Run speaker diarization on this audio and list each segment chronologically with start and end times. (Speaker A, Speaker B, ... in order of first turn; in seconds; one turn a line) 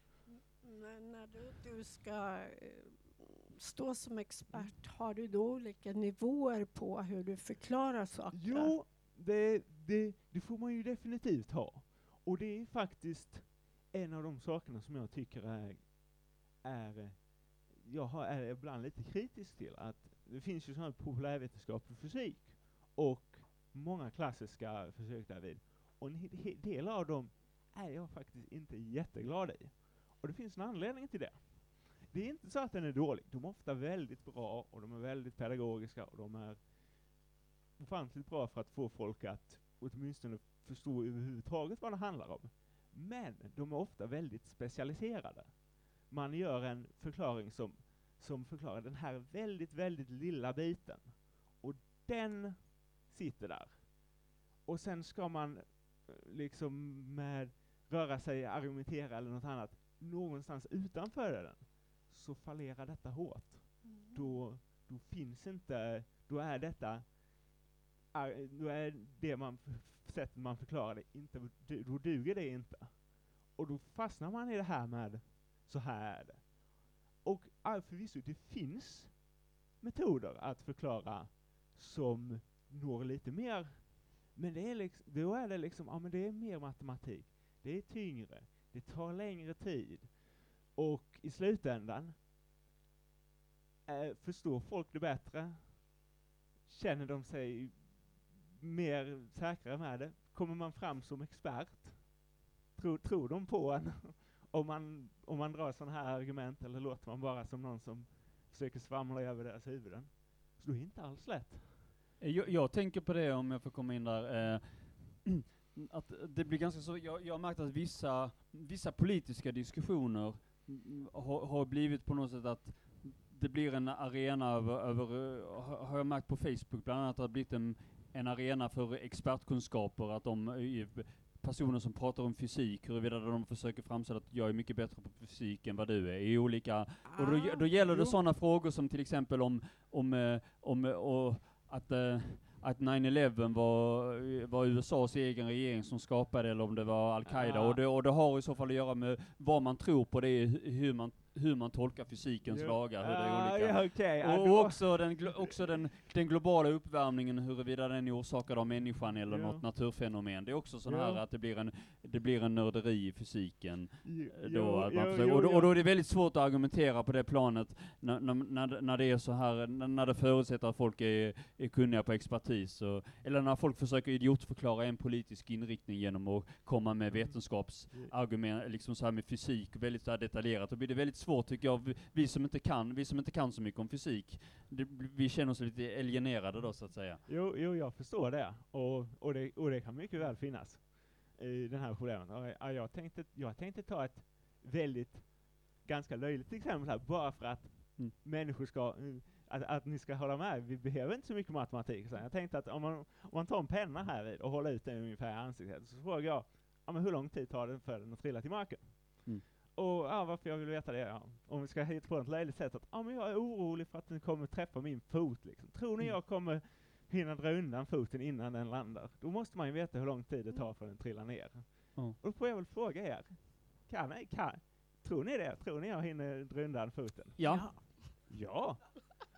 Speaker A: 0.3-8.8
Speaker B: 4.5-4.7
Speaker B: 8.3-37.2
Speaker B: 37.8-67.5
Speaker A: 63.8-64.4
Speaker B: 68.1-76.6
Speaker B: 77.2-92.2
Speaker B: 93.9-96.0
Speaker B: 96.6-102.2
Speaker B: 102.7-111.8
Speaker C: 112.2-187.2
Speaker B: 137.0-138.2
Speaker B: 147.2-147.8
Speaker B: 152.4-155.7
Speaker B: 159.2-159.6
Speaker B: 160.8-161.2
Speaker B: 164.0-165.8
Speaker B: 177.1-178.1
Speaker B: 187.2-227.7
Speaker C: 227.3-227.9
Speaker A: 227.4-228.2
Speaker B: 228.3-229.1